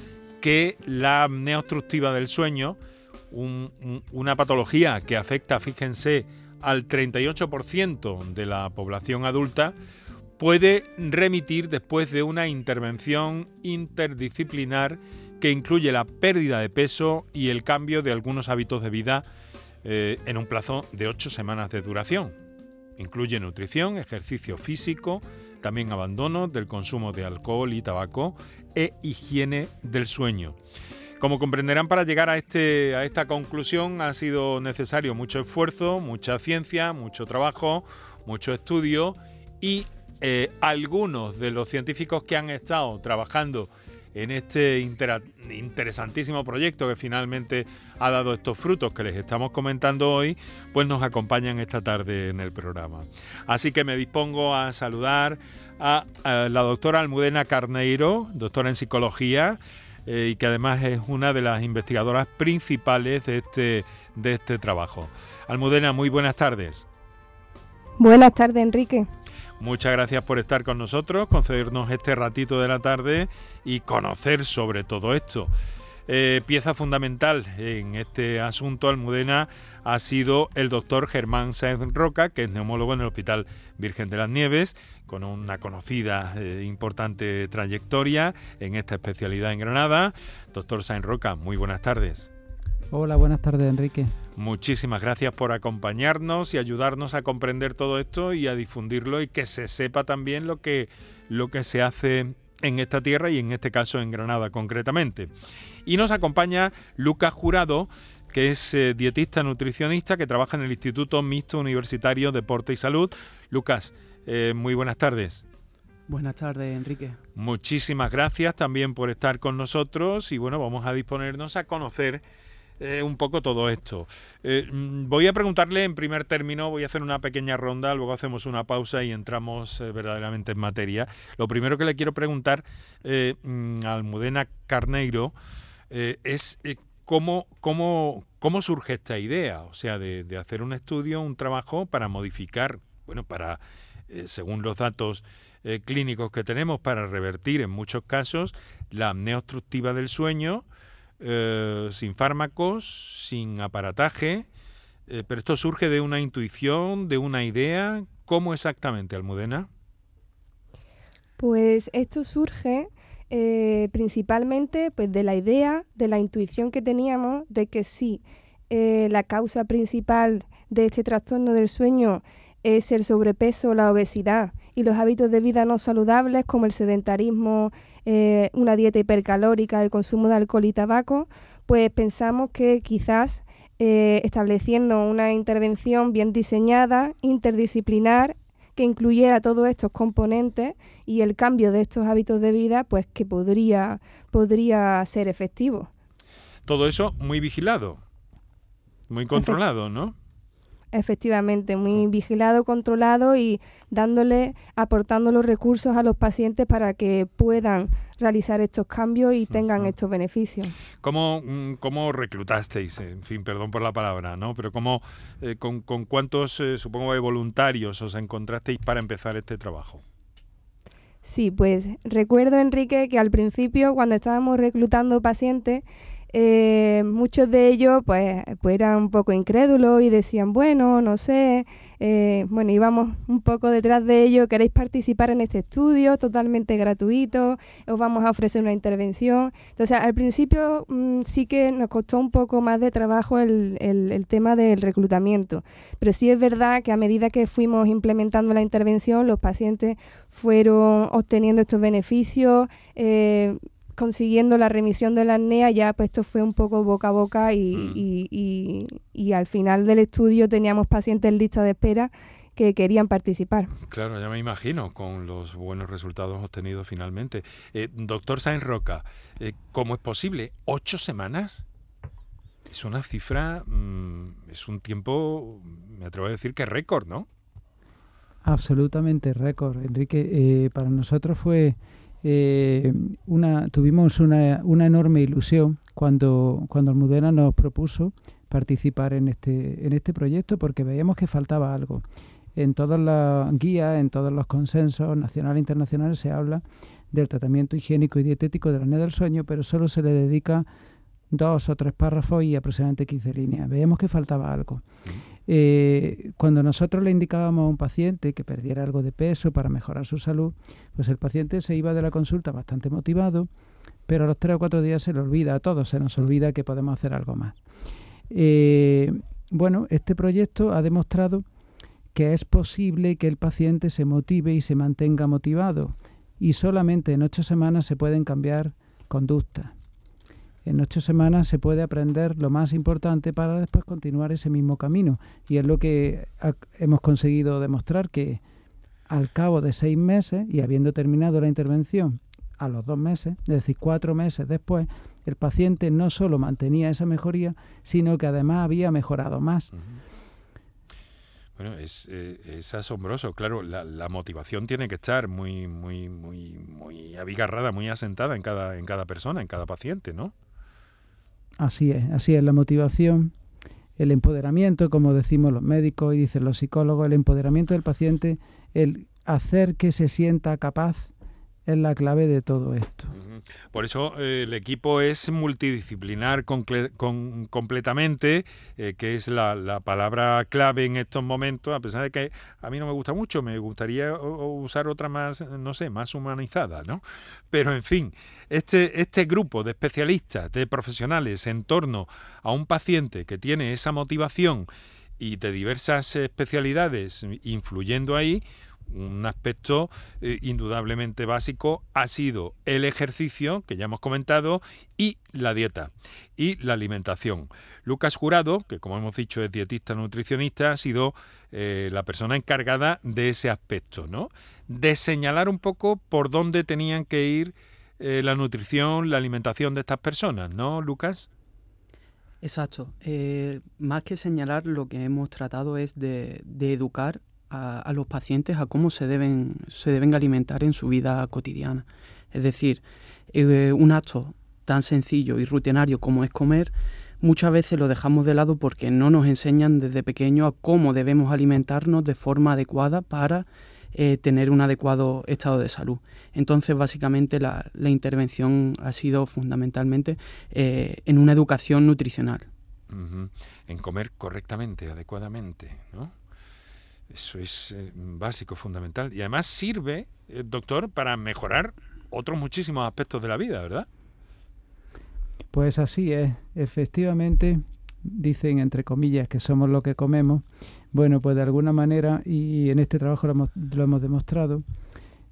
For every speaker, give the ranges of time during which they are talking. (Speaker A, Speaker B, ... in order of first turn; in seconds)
Speaker A: 0.4-2.8, 3.3-9.7, 10.4-19.2, 19.8-22.3, 23.0-30.6, 31.2-66.8, 69.6-75.5, 76.1-92.3, 94.4-105.3, 105.8-115.4, 117.3-122.2, 122.8-135.3, 135.9-150.6, 151.2-154.4, 155.1-159.7, 196.7-198.0, 199.1-200.1, 209.5-209.9, 211.0-220.0, 257.7-258.0, 263.8-271.6, 272.7-277.3, 349.7-350.0, 351.6-360.3, 373.1-394.7, 395.2-421.3, 452.9-456.1, 457.1-463.9
Speaker B: 68.0-69.1, 161.4-195.9, 200.9-210.7, 221.2-263.7
Speaker C: 92.9-94.1, 278.4-292.0, 292.6-300.6, 301.3-304.8, 305.4-313.5, 314.1-317.6, 318.3-321.4, 322.1-329.7, 330.6-338.4, 339.1-349.7, 361.6-363.3, 364.0-371.1, 371.6-373.1, 465.5-474.6
Speaker D: 116.1-117.2, 422.4-452.5